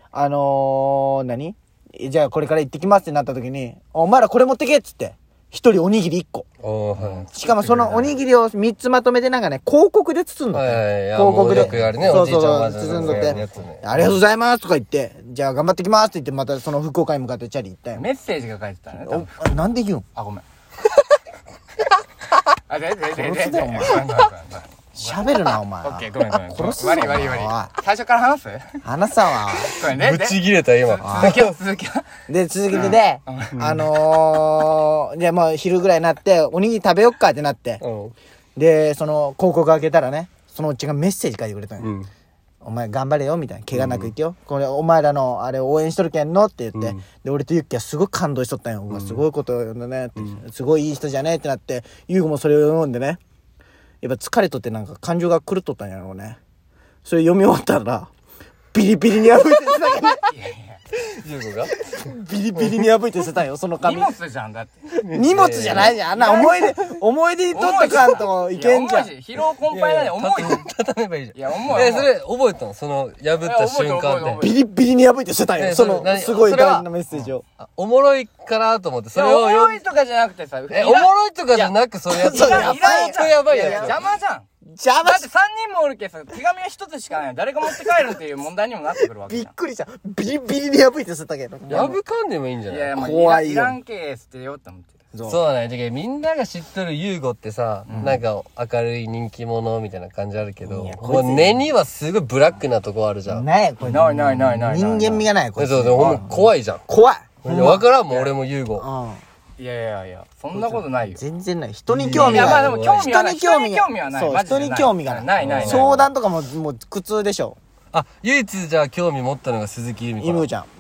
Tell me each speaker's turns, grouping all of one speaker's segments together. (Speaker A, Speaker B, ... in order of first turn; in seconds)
Speaker A: 0.1-6.5, 7.3-18.1, 19.0-20.1, 23.1-24.1, 24.9-27.8, 28.8-29.8, 31.0-31.4, 32.3-37.8, 38.6-41.9, 42.6-53.2, 54.0-56.4, 57.0-58.1, 58.7-60.3, 61.8-64.1, 64.9-69.1, 74.4-77.4, 82.1-83.9, 84.7-85.3, 87.6-88.0, 89.0-92.0, 93.0-93.8, 95.1-95.4, 97.9-98.2, 100.6-101.7, 103.3-107.8, 108.8-109.2, 110.5-117.6, 120.2-120.7
Speaker B: 6.6-7.3, 10.5-14.1, 29.9-31.5, 33.6-33.9, 37.8-38.1, 41.8-42.1, 43.7-44.1, 46.8-47.0, 48.9-49.2, 61.2-61.8, 65.0-66.0, 69.7-74.4, 75.6-76.9, 77.6-79.8, 80.7-84.0, 91.7-92.9, 95.3-103.4, 105.6-106.8, 107.4-108.9, 111.9-113.1, 115.4-116.1, 117.9-120.5
Speaker C: 7.0-8.1, 11.6-11.9, 13.1-13.6, 17.9-19.4, 20.1-20.4, 22.7-28.8, 29.5-32.1, 32.7-33.7, 60.2-60.8, 63.8-64.8, 66.1-66.6, 67.5-70.7, 71.3-72.1, 73.4-74.6, 79.1-81.7, 82.3-84.5, 85.0-89.5, 91.7-92.0, 92.7-95.0, 97.9-98.2, 103.8-105.3, 109.6-111.2, 112.2-115.9